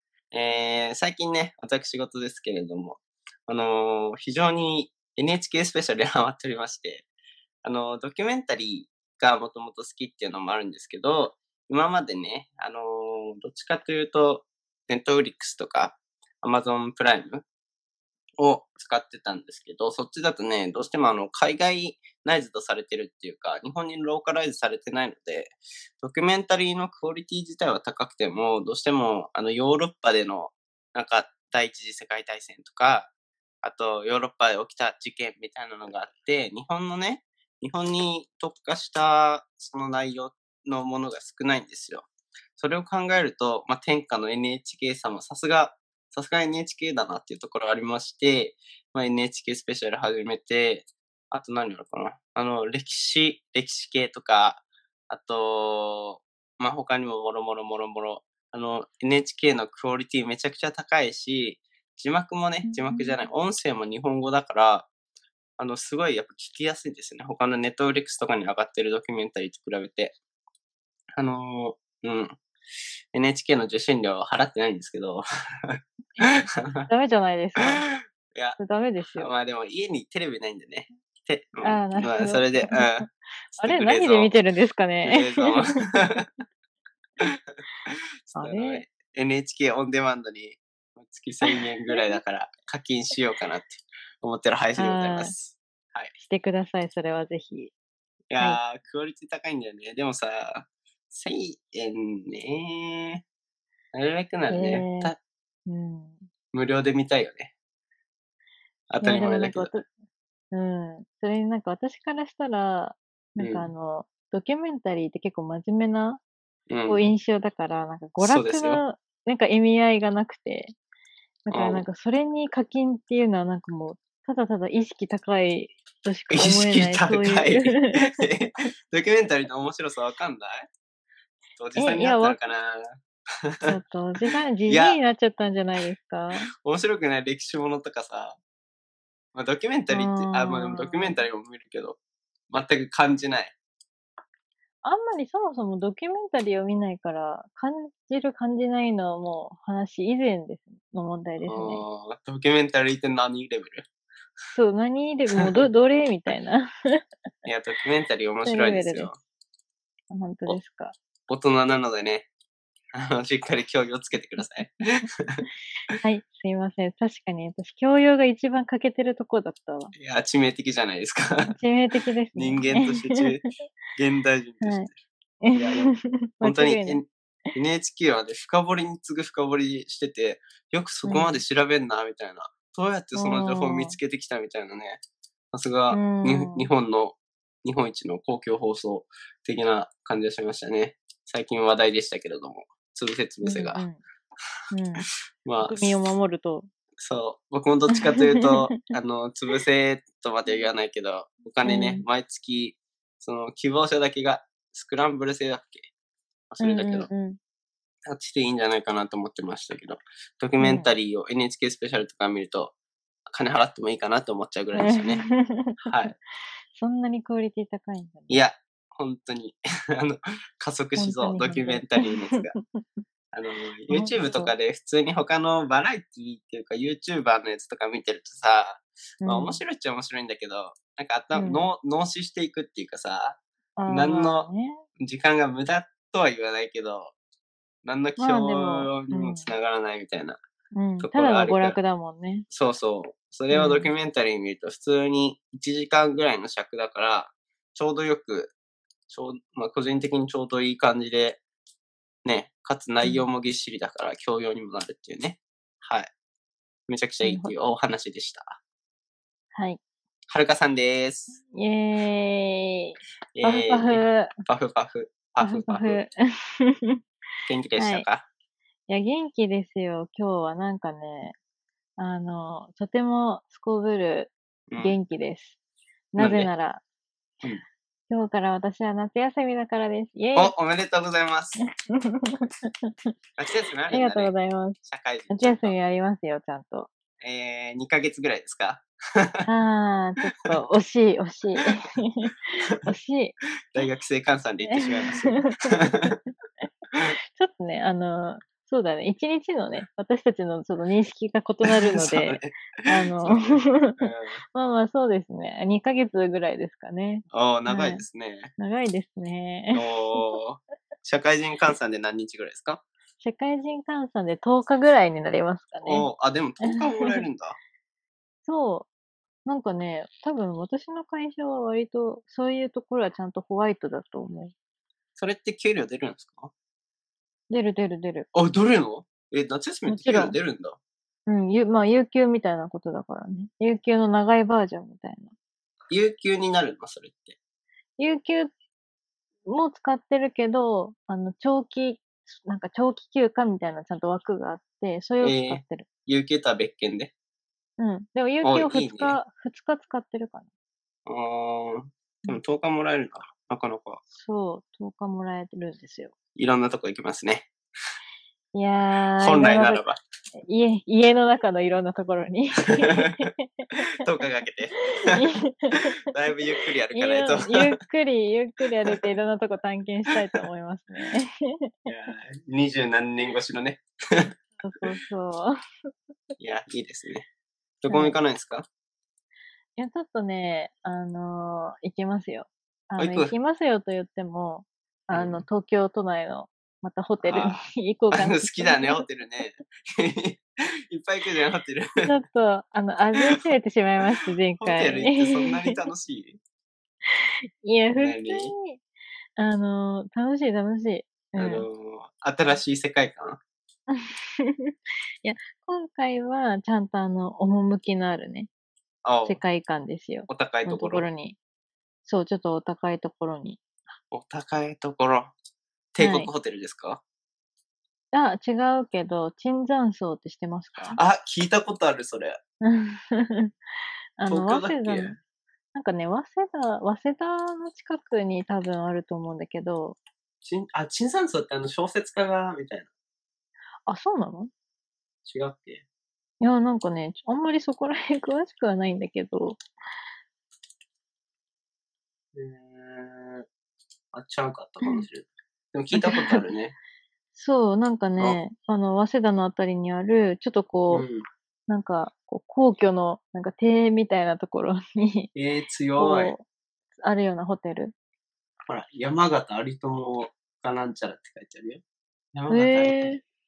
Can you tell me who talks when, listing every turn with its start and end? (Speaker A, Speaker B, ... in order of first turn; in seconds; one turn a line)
Speaker A: 0.3-7.1
Speaker A: 7.6-17.4
Speaker A: 18.4-33.1
Speaker A: 33.6-64.9
Speaker B: 62.7-63.1
Speaker A: 65.6-70.2
Speaker A: 71.2-72.4
Speaker A: 73.1-76.9
Speaker B: 76.2-77.8
Speaker A: 77.9-78.6
Speaker B: 78.6-79.3
Speaker A: 79.2-84.4
Speaker B: 81.6-83.1
Speaker B: 83.6-85.7
Speaker A: 85.0-86.3
Speaker A: 87.9-96.1
Speaker B: 88.3-88.8
Speaker B: 91.5-92.0
Speaker B: 94.8-95.3
Speaker B: 96.2-97.7
Speaker A: 98.3-103.2
Speaker A: 103.9-105.2
Speaker B: 104.5-105.1
Speaker B: 105.7-106.3
Speaker A: 106.5-107.5
Speaker A: 108.9-109.8
Speaker B: 109.0-109.9
Speaker B: 110.5-116.2
Speaker A: 113.4-113.7
Speaker A: 116.7-117.1
Speaker B: 116.9-120.8
Speaker A: 118.2-118.8
Speaker B: 121.5-128.0
Speaker A: 121.5-121.8
Speaker A: 126.3-130.7
Speaker A: 131.6-133.7
Speaker B: 131.8-132.4
Speaker B: 133.7-136.5
Speaker A: 134.7-135.0
Speaker A: 136.6-138.4
Speaker A: 139.3-142.0
Speaker B: 139.9-141.2
Speaker A: 142.5-143.5
Speaker B: 144.8-151.8
Speaker A: 151.4-153.9
Speaker B: 154.5-157.0
Speaker A: 157.5-159.2
Speaker B: 158.4-159.1
Speaker B: 160.1-161.0
Speaker A: 161.3-162.3
Speaker A: 162.9-165.5
Speaker B: 166.0-169.9
Speaker A: 169.9-171.6
Speaker B: 171.4-173.4
Speaker A: 172.3-174.9
Speaker B: 174.6-174.9
Speaker B: 175.4-177.0
Speaker A: 175.5-185.0
Speaker B: 181.1-181.4
Speaker B: 183.2-184.0
Speaker A: 185.5-193.8
Speaker B: 185.9-186.7
Speaker B: 193.4-194.0
Speaker B: 194.7-195.1
Speaker A: 195.4-196.0
Speaker B: 195.6-196.7
Speaker A: 197.0-205.9
Speaker B: 198.1-198.6
Speaker B: 201.6-202.1
Speaker A: 206.5-207.1
Speaker B: 206.6-207.4
Speaker A: 208.1-212.8
Speaker B: 210.6-210.9
Speaker A: 213.3-215.3
Speaker B: 214.8-216.1
Speaker A: 215.8-216.1
Speaker B: 216.8-218.4
Speaker A: 218.3-222.6
Speaker B: 221.0-222.8
Speaker A: 223.3-237.2
Speaker B: 223.9-224.5
Speaker B: 229.2-229.6
Speaker B: 231.3-231.7
Speaker B: 233.8-234.8
Speaker A: 237.8-240.4
Speaker B: 238.2-239.5
Speaker B: 240.8-242.5
Speaker A: 241.0-241.8
Speaker A: 242.5-248.5
Speaker B: 243.5-243.9
Speaker A: 249.1-251.4
Speaker A: 252.2-256.1
Speaker A: 256.9-258.6
Speaker B: 257.2-257.6
Speaker B: 259.6-259.8
Speaker A: 260.3-261.4
Speaker B: 261.4-264.4
Speaker A: 263.4-266.0
Speaker B: 265.4-267.0
Speaker A: 267.5-268.3
Speaker B: 267.8-268.1
Speaker B: 268.9-271.4
Speaker B: 272.0-275.6
Speaker A: 274.7-275.0
Speaker B: 276.1-276.8
Speaker A: 276.2-276.5
Speaker B: 278.1-280.5
Speaker A: 280.4-281.6
Speaker B: 281.9-282.9
Speaker A: 283.4-285.8
Speaker B: 283.9-286.9
Speaker A: 287.2-289.5
Speaker B: 289.5-293.4
Speaker A: 293.7-296.2
Speaker B: 294.7-296.1
Speaker B: 297.0-308.0
Speaker A: 301.6-304.4
Speaker A: 307.3-308.5
Speaker B: 308.6-309.8
Speaker A: 309.7-312.8
Speaker B: 313.2-316.1
Speaker A: 315.9-317.6
Speaker B: 316.6-317.1
Speaker B: 318.5-318.9
Speaker B: 319.5-324.5
Speaker A: 325.2-326.5
Speaker B: 327.5-328.3
Speaker A: 328.3-330.8
Speaker B: 329.9-330.4
Speaker B: 331.3-335.3
Speaker A: 335.9-337.4
Speaker B: 338.0-338.5
Speaker B: 339.5-345.9
Speaker A: 345.2-347.1
Speaker B: 347.8-350.5
Speaker A: 348.4-349.2
Speaker A: 351.1-354.0
Speaker B: 354.1-356.1
Speaker A: 356.4-357.5
Speaker B: 358.5-363.7
Speaker A: 359.2-360.0
Speaker A: 362.9-363.3
Speaker A: 363.9-365.3
Speaker B: 364.9-366.0
Speaker A: 366.1-367.8
Speaker B: 366.9-371.7
Speaker A: 371.9-374.4
Speaker B: 374.6-375.6
Speaker A: 376.4-377.3
Speaker A: 377.8-378.7
Speaker B: 377.9-378.2
Speaker B: 379.8-389.1
Speaker A: 383.0-383.3
Speaker A: 385.1-385.4
Speaker A: 387.2-387.6
Speaker A: 388.1-392.2
Speaker B: 392.0-395.8
Speaker A: 394.6-396.4
Speaker B: 397.1-398.8
Speaker A: 397.9-398.5
Speaker B: 399.4-401.7
Speaker A: 401.4-403.4
Speaker B: 403.9-408.5
Speaker A: 409.0-409.4
Speaker B: 409.3-411.4
Speaker A: 410.3-411.1
Speaker B: 412.1-413.6
Speaker A: 414.1-415.3
Speaker A: 415.9-417.0
Speaker B: 416.0-416.3
Speaker B: 418.1-421.0
Speaker A: 420.8-422.4
Speaker B: 422.6-423.5
Speaker B: 424.2-425.2
Speaker A: 424.3-425.2
Speaker B: 425.7-430.0
Speaker A: 430.4-432.9
Speaker B: 433.9-434.5
Speaker A: 435.2-435.9
Speaker B: 436.4-439.6
Speaker A: 442.3-443.5
Speaker A: 444.1-446.8
Speaker B: 445.9-446.4
Speaker B: 447.3-451.1
Speaker A: 450.9-451.3
Speaker B: 451.7-455.3
Speaker A: 455.4-456.4
Speaker B: 456.0-456.4
Speaker B: 457.0-457.9
Speaker A: 458.7-461.8
Speaker A: 462.3-463.1
Speaker B: 462.5-463.2